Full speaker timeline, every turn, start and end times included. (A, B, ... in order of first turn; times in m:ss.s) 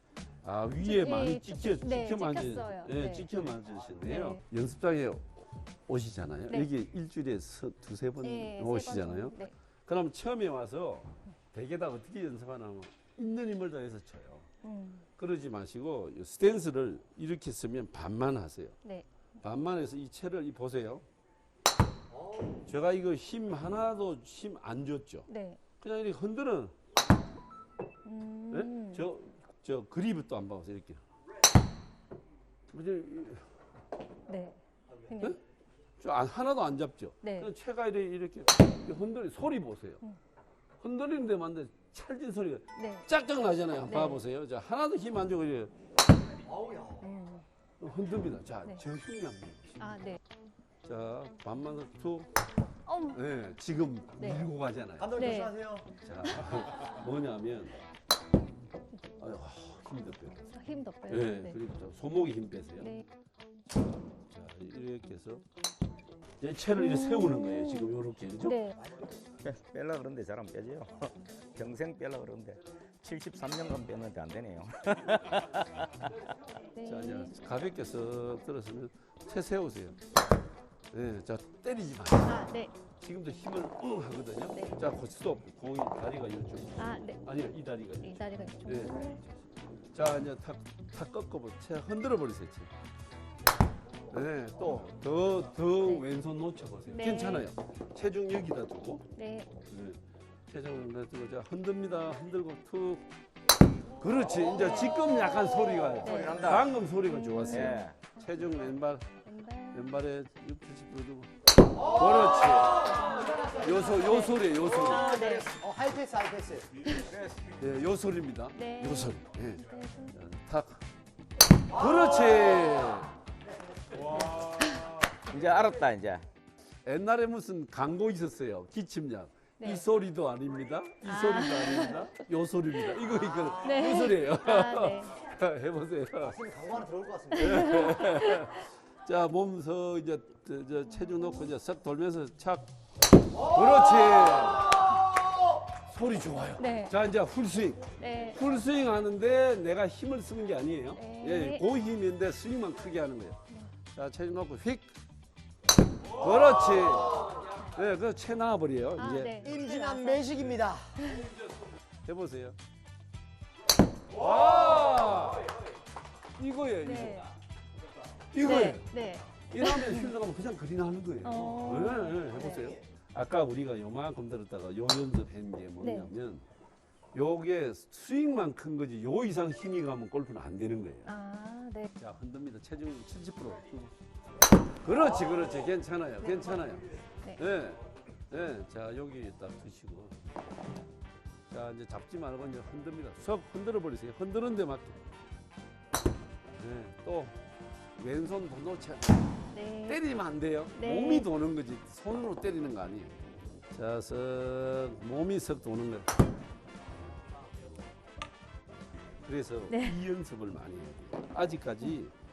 0:00.4-0:14.5 A
0:00.8-0:03.3 B
0:04.1-0:04.4 B
0:08.2-0:09.5 B
0:14.6-0:15.0 B
0:15.2-0:18.8 A
0:19.4-0:21.0 A
0:22.1-0:22.6 C
0:22.6-0:25.3 A
0:25.3-0:25.6 B
0:25.8-0:26.7 A
0:28.0-0:29.0 B
0:28.5-0:31.0 A
0:32.7-0:33.5 A
0:34.3-0:35.4 B
0:36.0-0:40.0 A
0:37.2-0:37.5 B
0:40.8-0:45.7 A
0:42.8-0:43.1 B
0:43.9-0:44.2 B
0:46.4-0:47.1 C
0:47.0-0:47.4 B
0:47.8-0:50.0 A
0:49.8-0:50.2 B
0:50.8-0:52.3 A
0:52.8-0:53.3 B
0:53.1-0:55.4 A
0:54.2-0:54.5 B
0:55.0-0:55.9 C
0:55.2-0:55.5 B
0:56.0-0:57.8 A
0:56.2-0:56.6 B
0:59.2-1:02.9 A
1:00.5-1:01.6 B
1:04.3-1:05.4 A
1:06.4-1:08.6 A
1:06.7-1:08.8 B
1:08.8-1:09.1 C
1:09.4-1:16.1 D
1:16.8-1:17.3 B
1:16.8-1:20.0 A
1:20.9-1:29.2 A
1:22.3-1:22.7 B
1:26.8-1:27.2 B
1:28.0-1:29.2 B
1:29.9-1:32.7 A
1:34.1-1:39.0 A
1:36.9-1:37.5 B
1:39.1-1:39.5 B
1:39.6-1:43.1 A
1:44.0-1:49.1 A
1:44.5-1:48.6 B
1:45.7-1:46.7 C
1:46.2-1:46.6 D
1:47.5-1:48.0 D
1:49.2-1:50.0 B
1:49.7-1:55.0 A
1:52.7-1:55.5 B
1:53.0-1:53.8 C
1:54.7-1:57.2 C
1:57.6-2:00.8 A
1:58.5-2:00.1 B
2:01.7-2:03.1 A
2:03.9-2:04.2 C
2:04.6-2:04.8 B
2:05.2-2:06.2 D
2:06.8-2:16.4 A
2:11.0-2:12.0 B
2:13.6-2:15.1 B
2:16.2-2:17.9 C
2:17.3-2:22.7 A
2:17.4-2:18.5 B
2:20.9-2:21.4 B
2:23.3-2:25.0 A
2:25.8-2:34.9 A
2:26.6-2:26.9 B
2:28.0-2:28.4 B
2:31.0-2:31.6 B
2:36.1-2:39.3 A
2:39.0-2:40.3 B
2:39.4-2:41.2 C
2:41.0-2:41.3 B
2:42.0-2:42.6 A
2:44.1-2:45.5 A
2:46.4-2:47.3 A
2:46.8-2:47.3 B
2:48.3-2:48.9 A
2:48.4-2:50.1 B
2:49.5-2:56.4 A
2:51.2-2:52.7 B
2:55.8-2:56.1 B
2:57.1-3:01.1 A
3:01.0-3:01.9 B
3:02.0-3:03.9 A
3:04.8-3:10.2 A
3:06.2-3:06.6 B
3:11.5-3:15.0 A
3:16.6-3:17.4 A
3:17.9-3:26.1 A
3:19.5-3:20.0 B
3:20.8-3:21.3 B
3:29.2-3:32.1 A
3:29.7-3:30.0 B